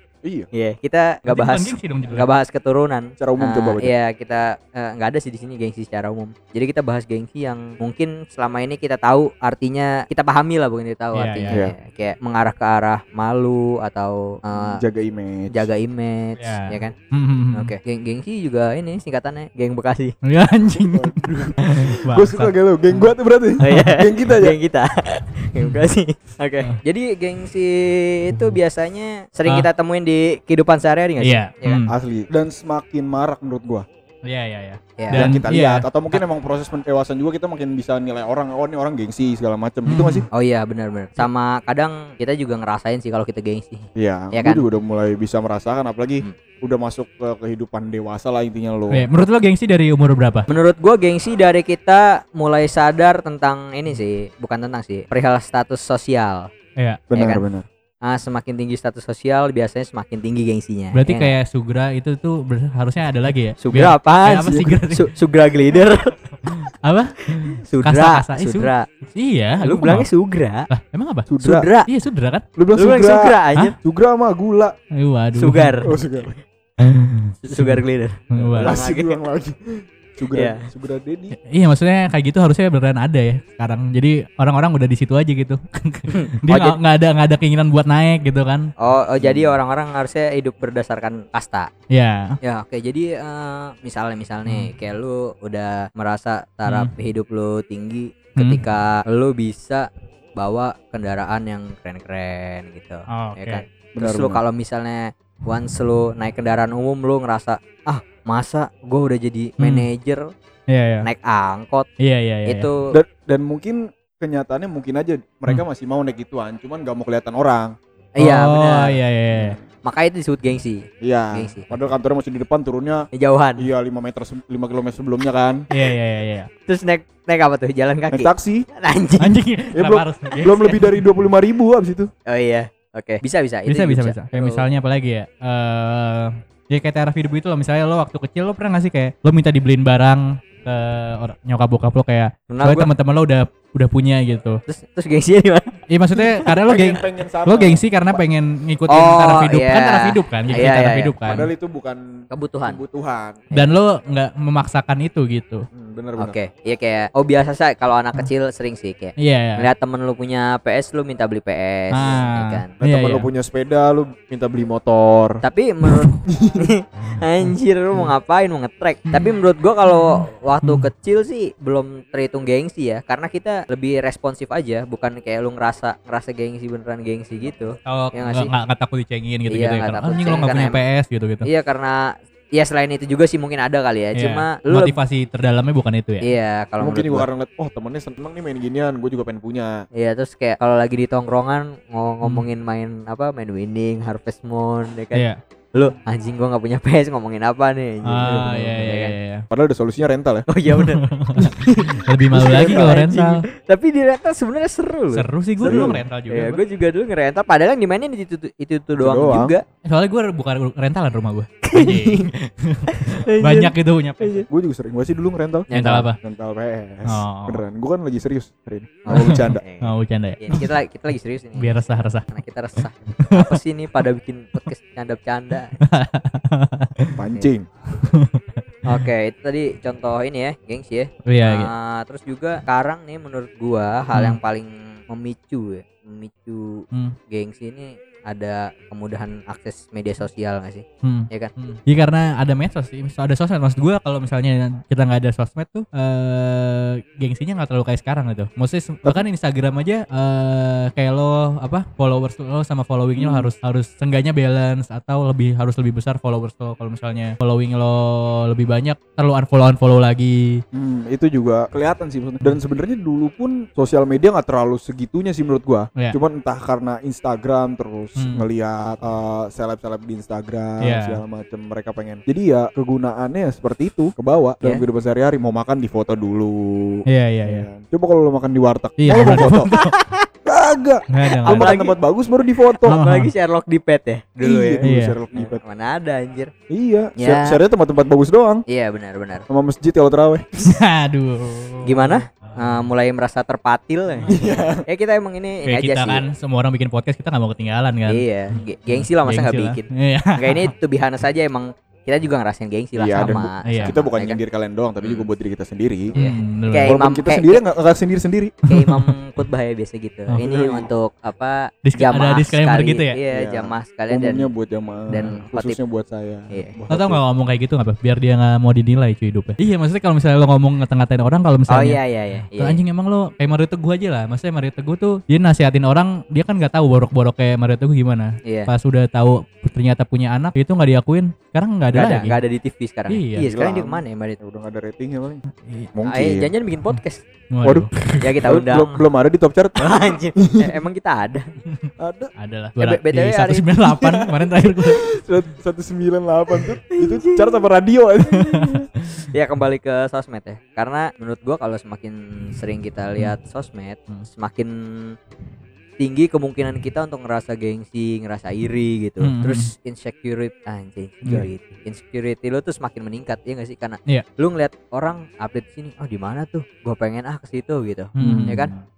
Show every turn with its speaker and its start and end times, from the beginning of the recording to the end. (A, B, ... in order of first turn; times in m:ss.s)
0:00.5-0:14.8 A
0:01.3-0:02.3 B
0:03.2-0:03.9 C
0:11.2-0:11.6 B
0:14.5-0:15.7 C
0:15.5-0:16.9 A
0:16.4-0:17.8 B
0:17.5-0:20.1 A
0:20.2-0:21.2 B
0:21.0-0:24.6 C
0:21.8-0:22.6 B
0:23.6-0:31.8 A
0:31.2-0:31.9 B
0:31.9-0:33.9 C
0:34.2-0:36.2 B
0:35.0-0:35.3 A
0:35.1-0:40.3 C
0:39.9-0:40.3 B
0:40.3-0:44.6 A
0:44.0-0:49.1 C
0:48.9-0:50.5 B
0:50.5-0:56.5 A
0:56.8-0:57.0 B
0:57.1-0:57.7 C
0:57.1-0:57.4 A
0:58.0-1:01.4 A
1:00.9-1:05.1 B
1:03.6-1:06.7 A
1:06.5-1:10.1 B
1:07.4-1:08.9 A
1:09.6-1:10.7 A
1:10.7-1:11.3 B
1:11.3-1:11.7 C
1:11.4-1:11.9 A
1:11.9-1:12.4 B
1:12.6-1:14.8 C
1:12.8-1:13.8 A
1:14.9-1:15.9 B
1:15.4-1:16.4 A
1:15.8-1:16.3 C
1:16.8-1:18.8 B
1:17.4-1:19.2 A
1:18.5-1:21.4 C
1:20.3-1:20.6 A
1:21.4-1:28.7 B
1:26.1-1:26.8 A
1:28.8-1:31.7 A
1:29.2-1:29.5 C
1:31.9-1:32.4 B
1:32.4-1:50.3 A
1:34.5-1:34.7 B
1:43.1-1:43.6 B
1:44.0-1:44.4 C
1:49.6-1:49.9 B
1:50.7-1:51.1 B
1:51.0-1:51.9 A
1:52.0-1:52.7 B
1:52.5-1:52.9 A
1:52.9-1:57.8 C
1:58.2-1:59.0 A
1:58.2-1:59.6 B
1:59.3-1:59.6 C
1:59.8-2:01.7 A
2:01.0-2:03.1 C
2:03.1-2:03.7 A
2:03.6-2:05.6 C
2:05.7-2:06.5 B
2:06.7-2:09.4 A
2:08.1-2:08.7 C
2:09.2-2:10.9 B
2:09.7-2:12.1 C
2:12.3-2:14.7 A
2:13.7-2:24.6 B
2:22.5-2:22.9 A
2:24.7-2:26.5 A
2:25.9-2:31.5 B
2:26.6-2:28.2 C
2:28.9-2:31.5 A
2:31.3-2:32.0 C
2:32.3-2:32.8 A
2:32.7-2:33.5 C
2:33.5-2:35.7 B
2:35.7-2:36.4 C
2:36.2-2:42.7 A
2:39.2-2:39.7 B
2:41.9-2:43.3 B
2:42.8-2:45.4 C
2:45.4-2:58.5 A
2:46.2-2:46.7 C
2:50.6-2:50.9 B
2:57.9-3:01.5 B
2:59.5-3:00.8 A
3:01.4-3:04.9 A
3:04.2-3:06.3 B
3:06.2-3:07.3 A
3:06.8-3:09.8 C
3:10.0-3:15.2 A
3:15.8-3:19.2 A
3:18.0-3:19.5 B
3:18.2-3:18.7 C
3:19.5-3:20.5 C
3:20.5-3:29.6 A
3:20.7-3:23.4 B
3:21.4-3:21.8 C
3:22.3-3:23.0 C
3:25.1-3:26.6 B
3:25.6-3:26.0 C
3:29.0-3:29.5 C
3:29.9-3:34.5 B
3:31.6-3:32.3 A
3:32.9-3:34.5 A
3:34.5-3:39.6 C
3:35.7-3:36.1 A
3:35.7-3:36.2 B
3:37.1-3:37.6 B
3:39.1-3:45.8 A
3:39.1-3:40.7 B
3:41.6-3:42.2 B
3:43.2-3:43.6 B
3:45.8-3:47.1 B
3:47.2-3:47.7 C
3:48.0-3:48.4 B
3:48.9-4:01.5 A
3:51.3-3:51.7 B
3:54.1-3:54.4 B
4:01.0-4:20.6 B
4:13.2-4:13.5 C
4:20.7-4:39.7 C
4:28.2-4:28.4 B
4:30.8-4:31.2 B
4:37.1-4:37.7 B
4:39.0-4:39.9 B
4:39.7-4:40.3 A
4:40.4-4:43.0 C
4:41.1-4:41.7 B
4:41.5-4:42.0 A
4:42.8-4:44.8 A
4:42.9-4:43.3 B
4:44.4-4:45.6 C
4:44.8-4:45.2 B
4:45.4-4:46.5 A
4:46.7-4:48.6 C
4:47.2-4:47.6 A
4:48.7-4:49.4 A
4:49.5-4:50.5 C
4:50.6-4:52.2 B
4:51.8-4:56.2 A
4:54.3-4:54.8 C
4:55.7-5:00.7 B
4:58.1-5:04.4 A
5:03.0-5:06.1 C
5:03.2-5:04.0 B
5:06.2-5:07.6 A
5:06.2-5:07.0 B
5:06.8-5:08.6 C
5:08.7-5:14.5 A
5:08.7-5:09.1 B
5:10.4-5:10.9 C
5:11.9-5:13.2 B
5:13.3-5:17.2 C
5:15.1-5:15.8 A
5:16.9-5:32.4 B
5:21.7-5:22.8 A
5:28.4-5:28.7 A
5:31.9-5:34.4 A
5:33.1-5:33.5 B
5:33.4-5:36.5 C
5:35.6-5:35.9 B
5:36.1-5:37.2 A
5:37.5-5:38.3 B
5:37.6-5:37.9 C
5:38.2-5:39.0 A
5:38.4-5:40.7 C
5:39.8-5:41.5 A
5:41.8-5:45.0 B
5:42.0-5:42.3 C
5:42.8-5:44.4 A
5:45.0-5:48.9 C
5:46.6-5:47.7 A
5:48.3-5:49.3 B
5:49.3-5:55.2 A
5:56.0-6:08.7 A
5:59.2-5:59.7 B
6:08.2-6:08.6 C
6:08.2-6:08.7 B